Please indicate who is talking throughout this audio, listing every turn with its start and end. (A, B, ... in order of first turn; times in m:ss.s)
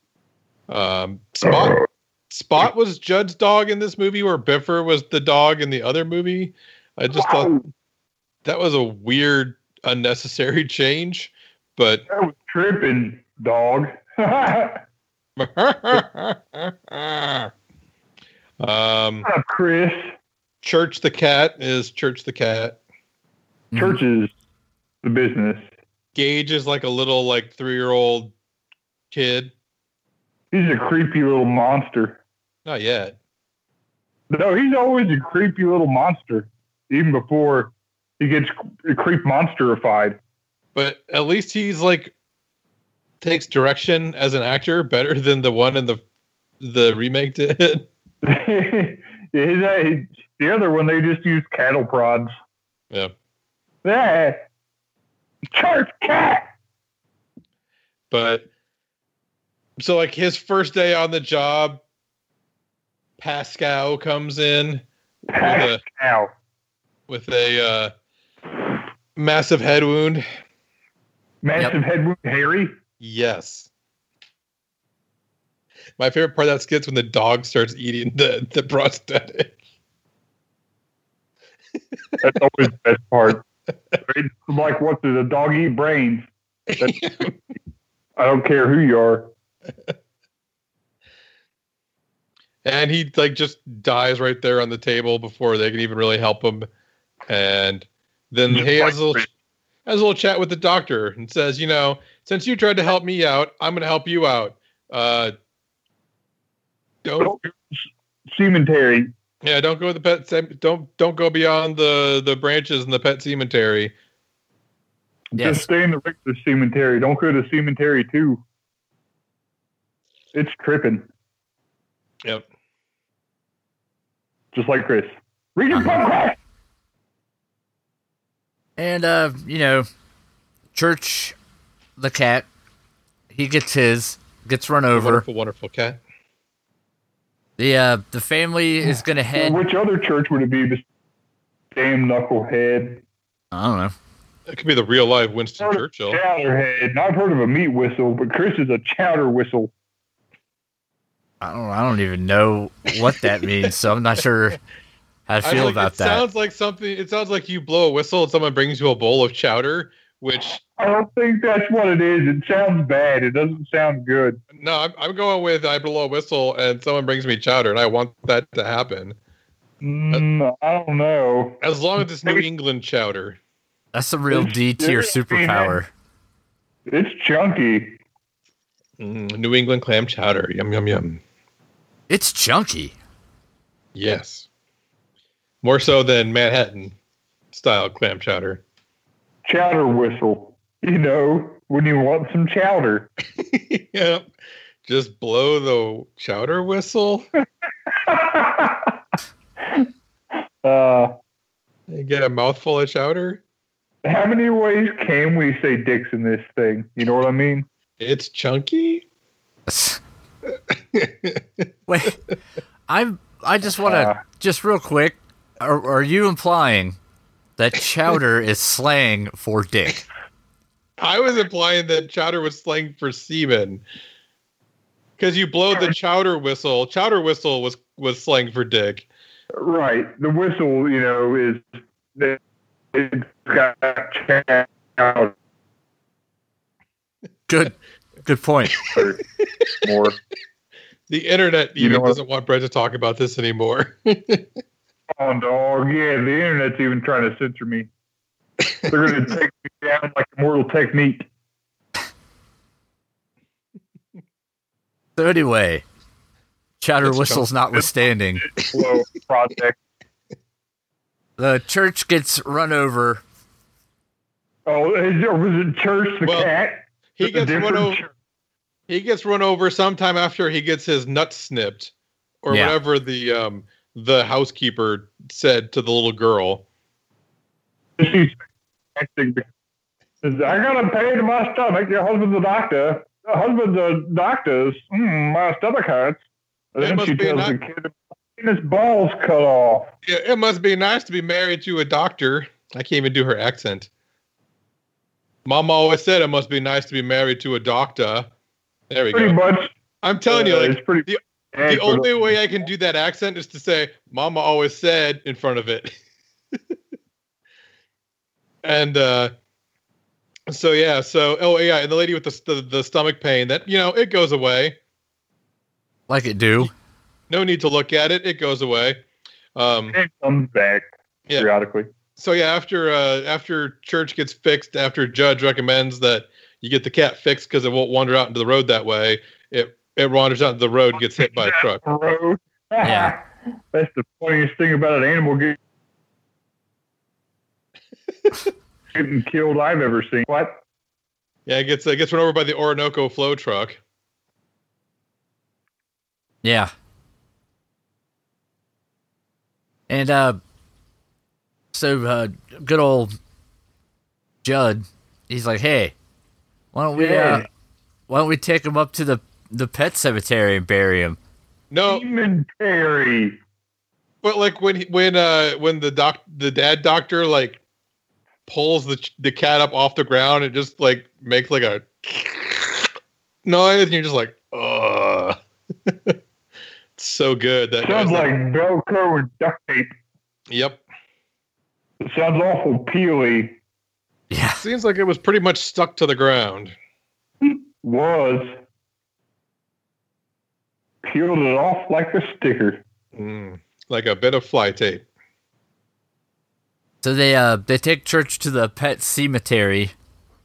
0:00.7-0:07.6 A
0:07.2-0:07.6 B
0:08.4-0:12.0 A
0:12.1-0:14.8 B
0:15.4-0:17.5 A
0:18.6-0:19.3 A
0:19.2-0:20.1 B
0:20.6-0:22.8 A
0:23.7-0:24.0 C
0:23.8-0:24.3 B
0:25.0-0:25.7 B
0:26.2-0:28.3 A
0:29.1-0:29.5 A
0:30.5-0:32.2 B
0:32.7-0:33.2 A
0:34.3-0:40.2 B
0:40.8-0:42.1 A
0:43.2-0:46.0 A
0:46.6-0:47.9 A
0:48.2-0:52.3 B
0:53.8-0:54.5 B
0:55.5-0:56.5 B
0:58.1-0:58.5 A
0:59.8-1:01.8 A
1:03.2-1:04.8 A
1:05.3-1:06.3 B
1:05.4-1:05.8 A
1:07.1-1:07.9 A
1:09.2-1:10.2 A
1:11.4-1:12.7 B
1:13.0-1:13.7 A
1:16.0-1:19.5 A
1:22.2-1:23.4 B
1:24.0-1:27.0 B
1:26.7-1:27.3 A
1:28.2-1:29.3 B
1:32.6-1:36.7 A
1:37.3-1:39.3 A
1:38.5-1:39.0 B
1:39.9-1:45.3 A
1:47.0-1:47.4 A
1:47.2-1:49.1 B
1:49.4-1:53.9 A
1:55.3-1:58.4 B
1:55.4-1:55.7 C
2:00.3-2:01.1 B
2:04.5-2:06.4 B
2:05.7-2:06.0 C
2:08.8-2:09.9 C
2:10.7-2:11.4 C
2:12.0-2:12.5 C
2:13.3-2:15.2 C
2:14.9-2:16.0 A
2:17.6-2:19.6 C
2:19.4-2:20.8 B
2:21.7-2:23.0 B
2:23.5-2:23.9 C
2:24.5-2:26.2 A
2:25.6-2:29.7 B
2:31.4-2:34.6 C
2:35.3-2:36.2 C
2:35.4-2:40.6 A
2:40.8-2:44.4 B
2:44.6-2:49.2 A
2:49.8-2:51.6 B
2:51.6-2:53.4 A
2:53.9-2:55.9 C
2:54.3-2:55.8 B
2:56.9-2:58.0 B
2:59.0-3:01.2 A
3:02.1-3:03.0 C
3:04.0-3:04.5 A
3:05.6-3:07.0 A
3:07.5-3:08.6 A
3:09.4-3:13.1 B
3:13.4-3:14.2 A
3:14.8-3:17.3 A
3:17.9-3:19.0 B
3:20.6-3:21.1 B
3:21.9-3:23.4 A
3:24.0-3:27.7 B
3:28.0-3:29.0 A
3:29.7-3:30.0 C
3:30.9-3:31.4 A
3:31.9-3:32.2 C
3:32.9-3:37.0 C
3:33.8-3:34.2 B
3:37.6-3:40.0 C
3:41.0-3:43.8 A
3:45.2-3:49.1 A
3:49.6-3:52.4 B
3:52.9-3:55.4 B
3:57.5-3:58.9 C
3:58.9-3:59.2 B
3:59.8-4:00.2 B
4:01.1-4:04.5 A
4:01.8-4:02.2 B
4:05.1-4:07.9 B
4:08.9-4:11.3 B
4:15.2-4:15.8 C
4:16.8-4:18.5 C
4:17.0-4:17.4 A
4:18.4-4:19.8 B
4:18.6-4:18.9 A
4:21.4-4:23.2 C
4:24.7-4:28.1 B
4:26.2-4:26.5 A
4:27.2-4:28.0 A
4:28.9-4:31.9 A
4:32.4-4:36.6 A
4:32.5-4:32.8 C
4:38.0-4:38.4 B
4:39.0-4:39.5 B
4:40.2-4:46.2 B
4:46.8-4:49.9 B
4:46.8-4:47.6 A
4:50.0-4:53.9 A
4:55.4-4:58.3 A
4:58.9-4:59.4 A
4:59.1-4:59.7 B
5:00.0-5:05.9 A
5:00.3-5:02.4 B
5:08.6-5:09.3 A
5:10.5-5:14.8 A
5:16.1-5:16.7 C
5:17.3-5:19.0 A
5:19.6-5:20.0 A
5:19.9-5:21.9 B
5:22.2-5:31.8 A
5:31.2-5:35.6 B
5:32.8-5:33.2 C
5:38.9-5:40.6 B
5:41.5-5:43.8 A
5:46.4-5:46.7 C
5:49.9-5:50.4 C
5:51.7-5:53.1 C
5:54.4-5:56.0 C
5:56.7-5:57.5 C
5:57.0-5:57.5 B
5:58.1-6:01.2 C
6:01.7-6:02.0 A
6:01.9-6:03.4 B
6:04.2-6:07.6 A
6:08.5-6:12.9 A
6:13.4-6:15.4 A
6:15.9-6:16.2 A
6:17.0-6:18.3 A
6:17.8-6:19.9 B
6:20.5-6:20.8 A
6:22.0-6:23.6 B
6:24.3-6:24.6 C
6:24.6-6:26.8 A
6:27.4-6:28.6 B
6:31.0-6:32.8 B
6:33.2-6:35.0 A
6:37.0-6:39.9 C